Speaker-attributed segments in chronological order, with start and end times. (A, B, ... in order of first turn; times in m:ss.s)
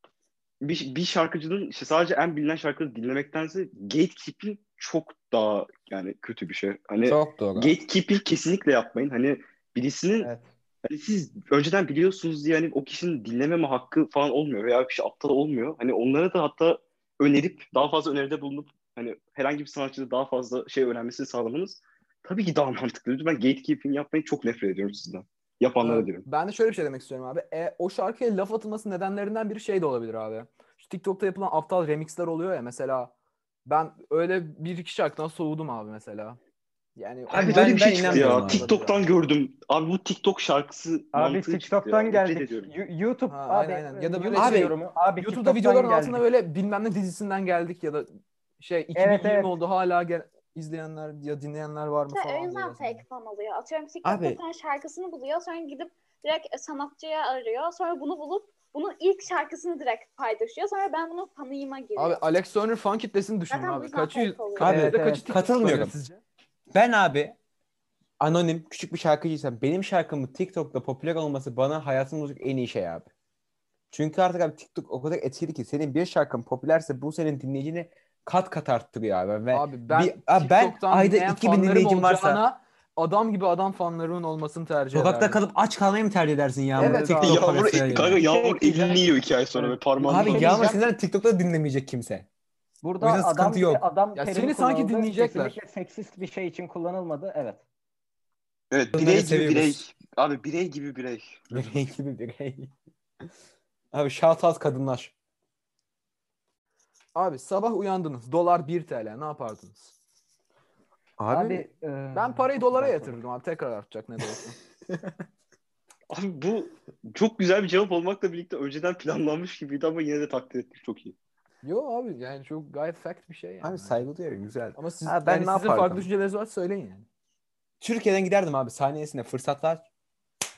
0:00.6-0:10.3 A
0:07.0-0:07.7 B
0:10.2-0:10.5 C
0:10.8-0:26.2 A
0:25.8-0:33.1 D
0:33.7-0:36.4 D
0:37.0-0:39.0 D
0:37.3-0:42.7 A
0:37.3-0:38.7 B
0:41.1-0:46.2 C
0:43.3-0:53.0 D
0:44.3-0:44.7 B
0:49.0-0:49.5 C
0:52.1-1:02.2 E
0:54.0-0:54.4 B
1:02.0-1:06.2 D
1:03.5-1:04.8 E
1:04.6-1:05.9 B
1:04.7-1:05.3 C
1:06.7-1:07.4 B
1:08.2-1:13.1 B
1:13.9-1:22.4 B
1:19.5-1:25.4 D
1:24.9-1:28.2 B
1:26.8-1:27.4 D
1:26.8-1:27.2 C
1:27.2-1:30.7 A
1:28.1-1:30.8 C
1:30.1-1:32.3 B
1:30.2-1:30.7 D
1:32.8-1:37.6 C
1:33.0-1:33.8 B
1:34.2-1:35.6 D
1:38.7-1:41.7 A
1:38.9-1:39.8 B
1:41.5-1:42.7 B
1:43.9-1:45.1 B
1:47.2-1:49.9 D
1:51.2-1:51.7 B
1:51.3-1:53.1 C
1:52.1-1:54.6 D
1:56.1-2:01.2 A
2:01.6-2:04.0 D
2:03.6-2:06.1 B
2:04.8-2:07.1 D
2:07.8-2:09.8 B